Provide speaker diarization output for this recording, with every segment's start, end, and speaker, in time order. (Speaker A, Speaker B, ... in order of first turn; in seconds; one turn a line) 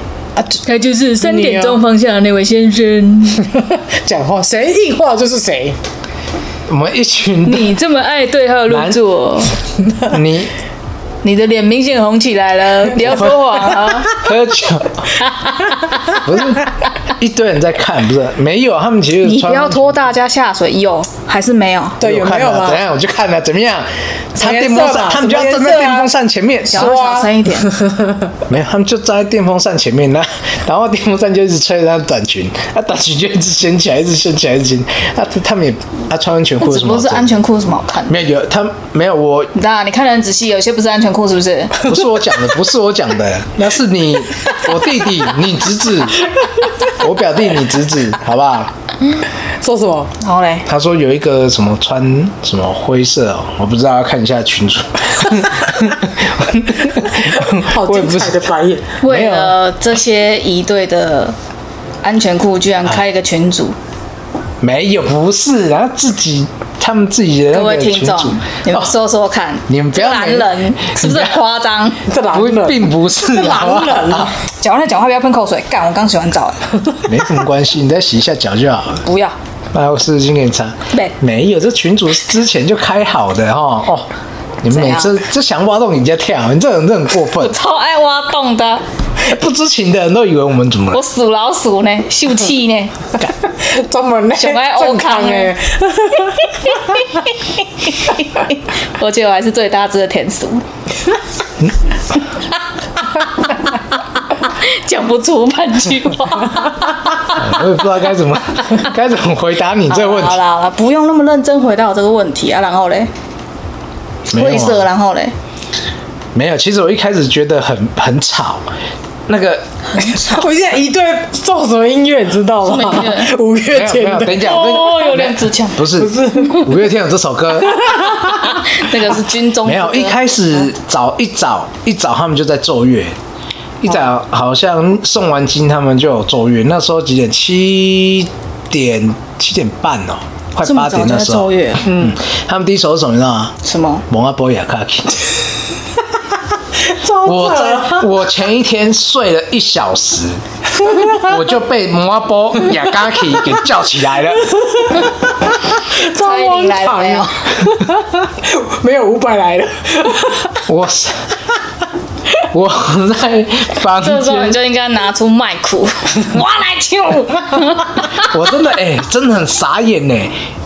Speaker A: 0.6-3.4
Speaker B: 1.2-1.8
Speaker B: 3.5-5.8
Speaker C: 6.7-7.7
Speaker A: 7.5-9.6
Speaker C: 8.7-9.0
Speaker C: 10.1-10.5
Speaker A: 11.2-14.1
Speaker C: 13.1-13.3
Speaker C: 14.1-15.1
Speaker A: 15.4-16.1
Speaker C: 16.2-20.0
Speaker A: 19.2-22.0
Speaker B: 22.0-22.8
Speaker C: 22.0-27.0
Speaker B: 24.4-26.1
Speaker A: 26.7-27.7
Speaker B: 26.7-28.3
Speaker C: 28.4-37.3
Speaker A: 36.6-38.2
Speaker C: 38.1-39.5
Speaker A: 39.5-41.9
Speaker C: 41.8-46.2
Speaker C: 46.9-48.7
Speaker B: 49.6-50.1
Speaker A: 50.2-50.7
Speaker C: 50.6-58.4
Speaker B: 57.5-58.9
Speaker A: 59.0-61.4
Speaker C: 59.0-59.5
Speaker A: 62.0-63.8
Speaker C: 64.6-68.9
Speaker A: 67.5-72.0
Speaker C: 69.7-71.4
Speaker B: 72.1-74.3
Speaker C: 72.3-74.3
Speaker A: 74.5-76.6
Speaker C: 77.0-79.0
Speaker A: 79.0-79.3
Speaker C: 79.7-84.1
Speaker C: 84.6-87.5
Speaker A: 84.7-85.2
Speaker A: 87.4-88.8
Speaker C: 89.2-91.0
Speaker A: 90.9-93.0
Speaker B: 93.5-96.8
Speaker A: 94.4-95.5
Speaker A: 96.8-100.6
Speaker A: 104.3-106.9
Speaker C: 107.3-110.4
Speaker A: 109.9-113.1
Speaker C: 114.3-114.9
Speaker A: 114.3-115.3
Speaker C: 116.3-118.6
Speaker C: 119.3-120.2
Speaker A: 119.9-120.5
Speaker B: 120.2-124.7
Speaker A: 122.6-123.3
Speaker C: 123.7-128.0
Speaker A: 124.4-125.9
Speaker B: 125.9-126.8
Speaker B: 127.6-128.5
Speaker A: 128.4-130.2
Speaker C: 129.6-133.2
Speaker C: 133.8-143.6
Speaker A: 140.6-141.9
Speaker B: 141.8-142.1
Speaker A: 143.6-144.0
Speaker C: 144.1-145.2
Speaker B: 146.8-148.1
Speaker C: 147.2-150.4
Speaker B: 150.8-151.2
Speaker C: 151.1-154.5
Speaker B: 154.6-160.6
Speaker A: 156.2-157.6
Speaker C: 160.7-161.1
Speaker C: 162.5-164.6
Speaker A: 164.0-168.3
Speaker B: 166.3-167.6
Speaker C: 168.2-170.3